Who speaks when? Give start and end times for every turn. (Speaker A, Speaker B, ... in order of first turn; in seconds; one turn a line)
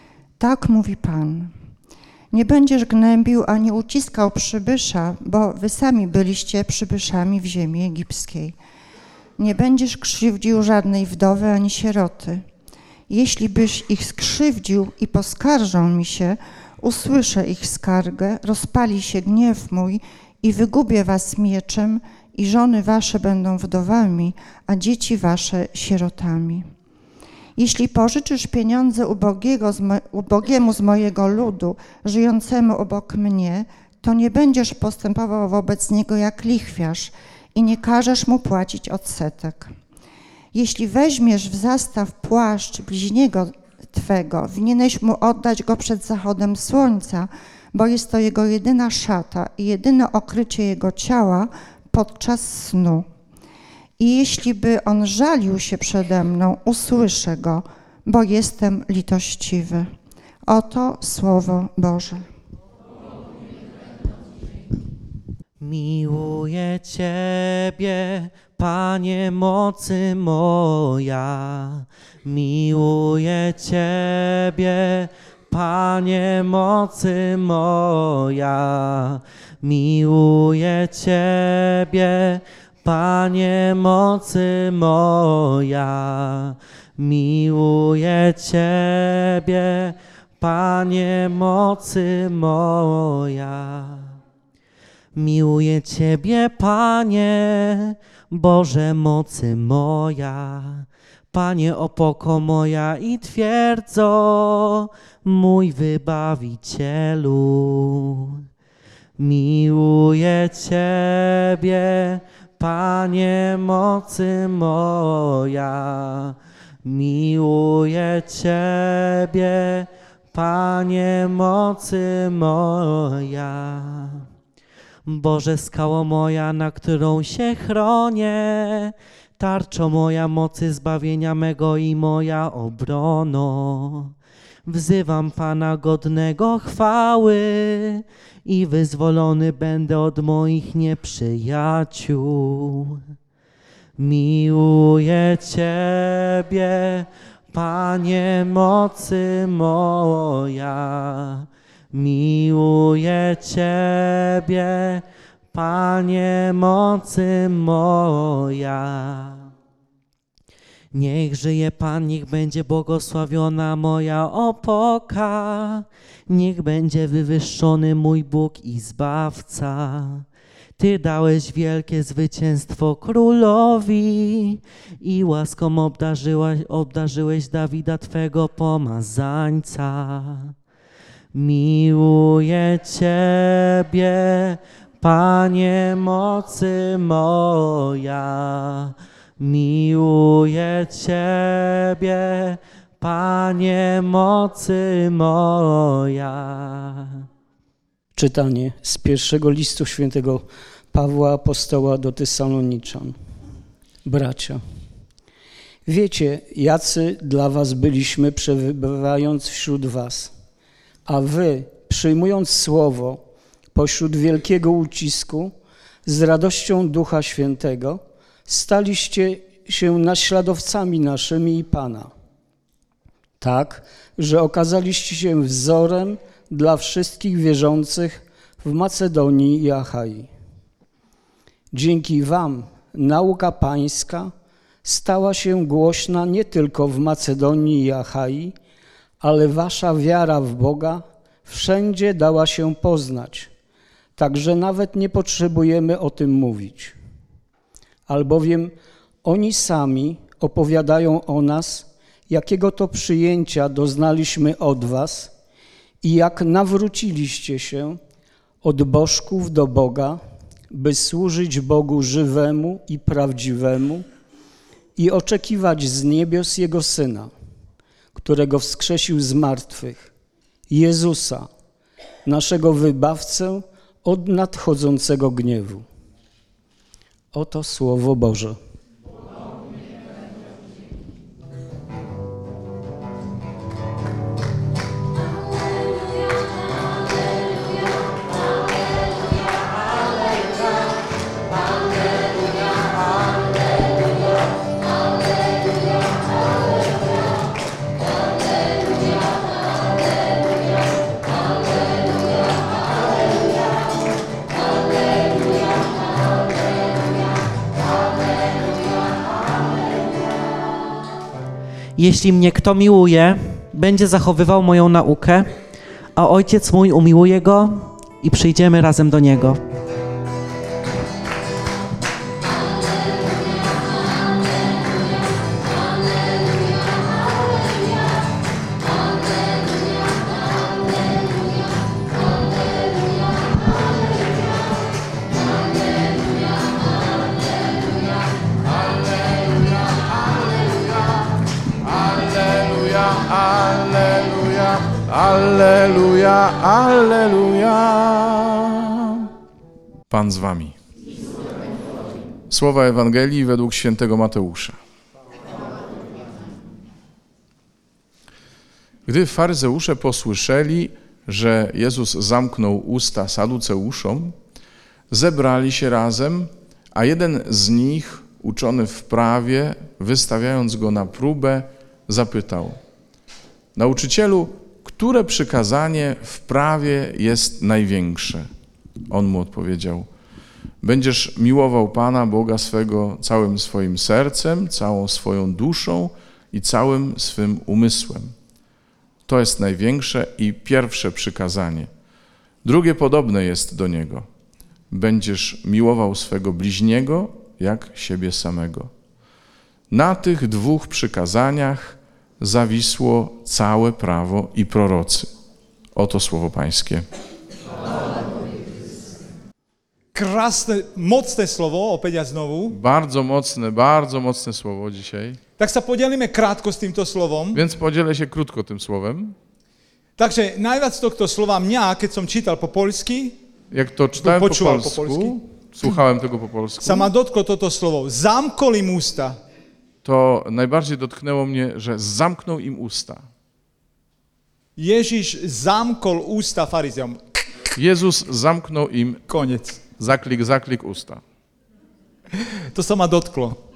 Speaker A: 0.4-1.5
Speaker A: 2.3-8.6
Speaker A: 9.4-12.4
Speaker A: 13.1-26.7
Speaker A: 27.6-39.7
Speaker A: 40.5-53.1
Speaker A: 54.0-59.9
Speaker A: 60.5-62.3
Speaker B: 65.6-94.2
Speaker B: 95.2-108.5
Speaker B: 109.2-124.3
Speaker B: 125.0-134.1
Speaker B: 134.7-143.1
Speaker B: 144.0-159.5
Speaker B: 160.9-170.3
Speaker B: 170.8-180.5
Speaker B: 181.3-197.2
Speaker C: 198.2-203.2
Speaker C: 204.1-204.6
Speaker C: 205.9-210.3
Speaker C: 211.1-213.2
Speaker C: 213.7-215.5
Speaker C: 216.1-222.1
Speaker C: 223.4-230.3
Speaker C: 231.7-234.3
Speaker C: 234.8-238.6
Speaker C: 239.2-243.5
Speaker C: 244.2-246.9
Speaker C: 248.1-255.3
Speaker C: 256.0-258.0
Speaker C: 258.6-260.2
Speaker C: 260.7-264.1
Speaker C: 265.0-267.3
Speaker C: 268.1-270.1
Speaker C: 270.7-271.5
Speaker C: 272.2-275.9
Speaker C: 277.3-278.6
Speaker B: 312.0-315.6
Speaker B: 316.1-319.6
Speaker D: 338.7-349.3
Speaker D: 350.1-350.8
Speaker D: 352.5-354.8
Speaker D: 359.1-364.4
Speaker D: 365.1-372.8
Speaker D: 373.8-378.5
Speaker D: 379.1-380.1
Speaker D: 380.8-388.3
Speaker D: 389.3-391.9
Speaker D: 392.6-394.3
Speaker D: 394.9-398.9
Speaker D: 399.9-405.3
Speaker D: 405.9-407.1
Speaker E: 410.1-412.8
Speaker D: 412.7-415.4
Speaker E: 415.6-417.6
Speaker D: 417.5-419.4
Speaker E: 420.2-423.4
Speaker D: 423.7-427.1
Speaker E: 424.2-425.4
Speaker E: 426.8-429.4
Speaker D: 430.0-433.2
Speaker E: 434.8-437.2
Speaker D: 437.8-439.2
Speaker E: 439.3-439.9
Speaker D: 439.9-441.2
Speaker E: 442.7-443.6